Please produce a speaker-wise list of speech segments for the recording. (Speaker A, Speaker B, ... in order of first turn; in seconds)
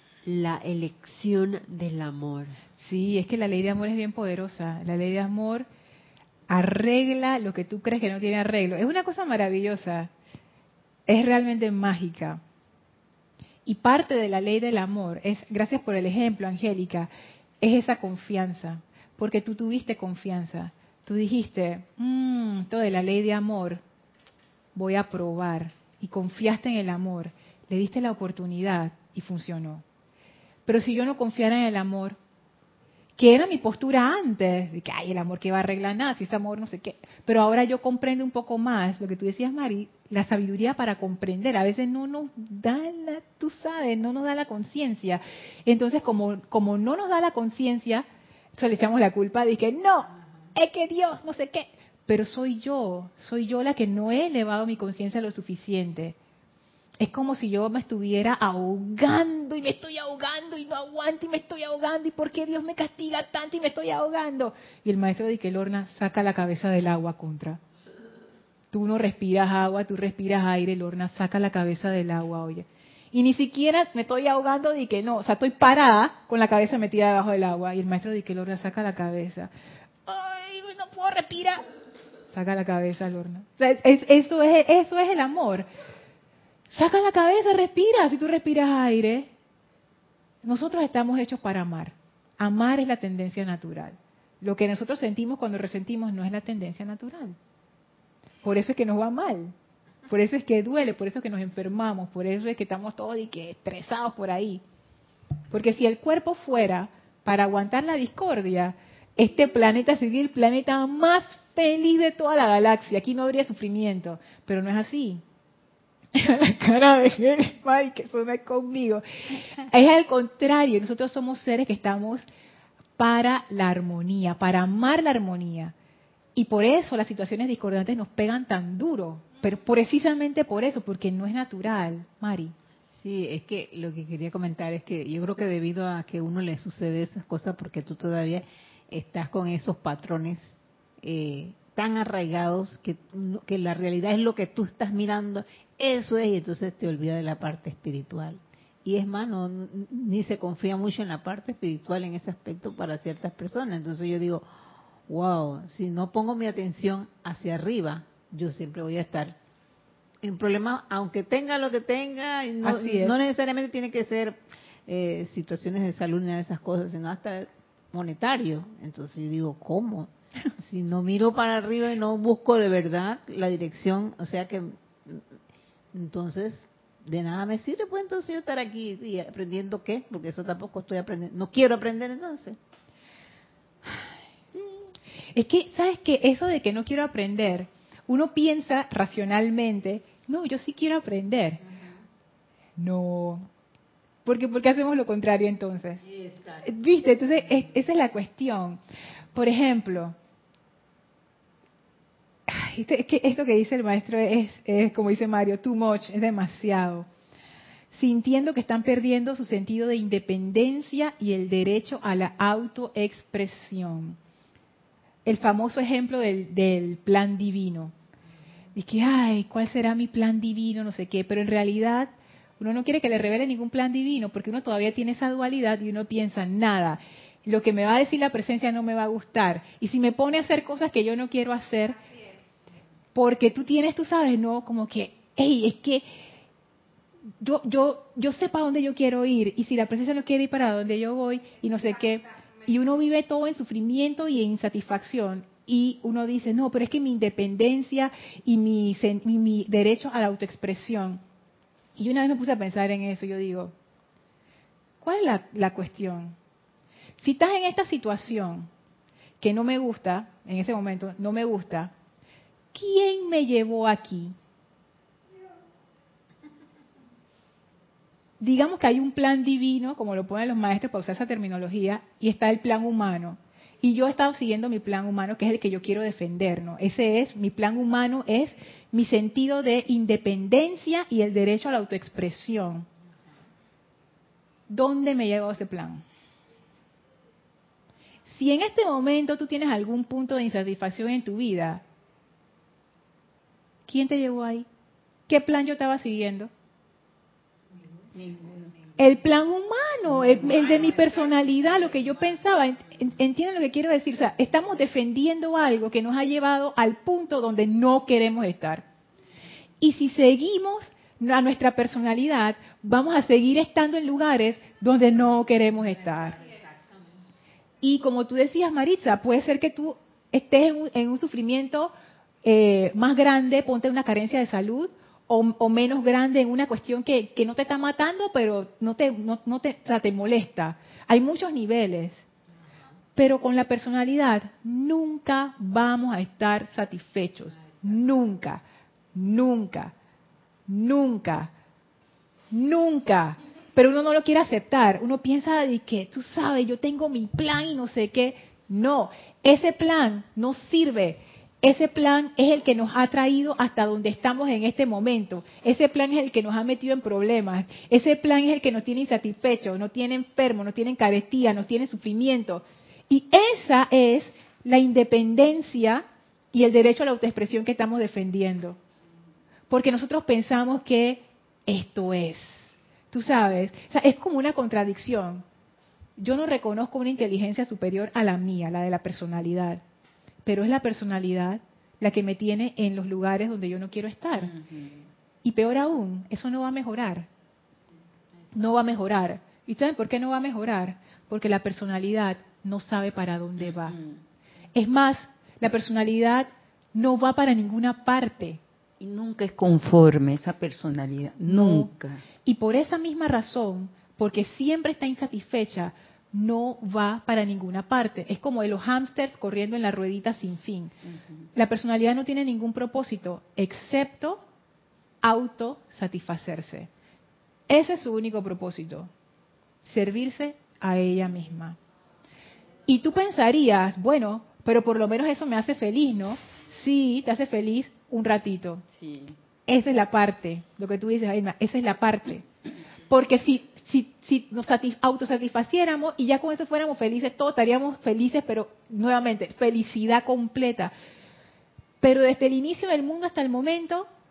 Speaker A: 0.2-2.6
Speaker B: 2.8-5.7, 6.5-10.1, 11.1-12.4, 13.7-17.1, 17.6-23.8, 24.8-29.8, 30.7-32.2, 33.2-56.2, 57.0-67.6, 68.7-79.5, 80.1-81.6, 82.3-85.7, 86.7-89.3, 90.4-97.4, 98.4-99.5, 100.1-104.6, 105.5-115.2, 116.2-122.3, 123.0-125.7, 126.4-132.6, 162.6-163.2, 183.9-184.7, 185.3-191.6, 192.8-193.5, 194.2-196.0, 196.6-198.8, 199.3-200.2, 202.5-207.1, 207.9-214.2, 215.2-217.9, 218.8-232.0, 233.2-236.1, 237.4-251.2, 252.0-253.7, 255.0-256.4, 257.2-258.7, 259.4-261.9, 262.7-264.4, 268.4-282.9, 284.7-286.0, 288.3-291.8, 293.9-294.7, 295.3-296.5, 299.0-308.9, 309.8-316.4, 317.8-321.9, 322.4-332.3, 333.2-338.6, 339.1-339.9, 340.7-341.5, 342.5-368.8, 369.7-375.4, 376.2-379.8, 380.4-384.5, 385.4-387.3, 388.6-394.0, 394.8-398.6, 401.5-401.9, 402.4-410.9, 411.6-414.4, 415.2-416.9, 417.7-419.1, 419.8-421.8, 422.9-428.8, 429.7-432.5, 433.1-440.9, 442.0-444.1
Speaker C: 133.0-154.5, 155.1-159.4, 160.2-175.4, 175.9-182.6, 196.1-196.6
Speaker D: 298.1-298.7, 384.4-385.0, 399.0-402.2, 429.0-429.4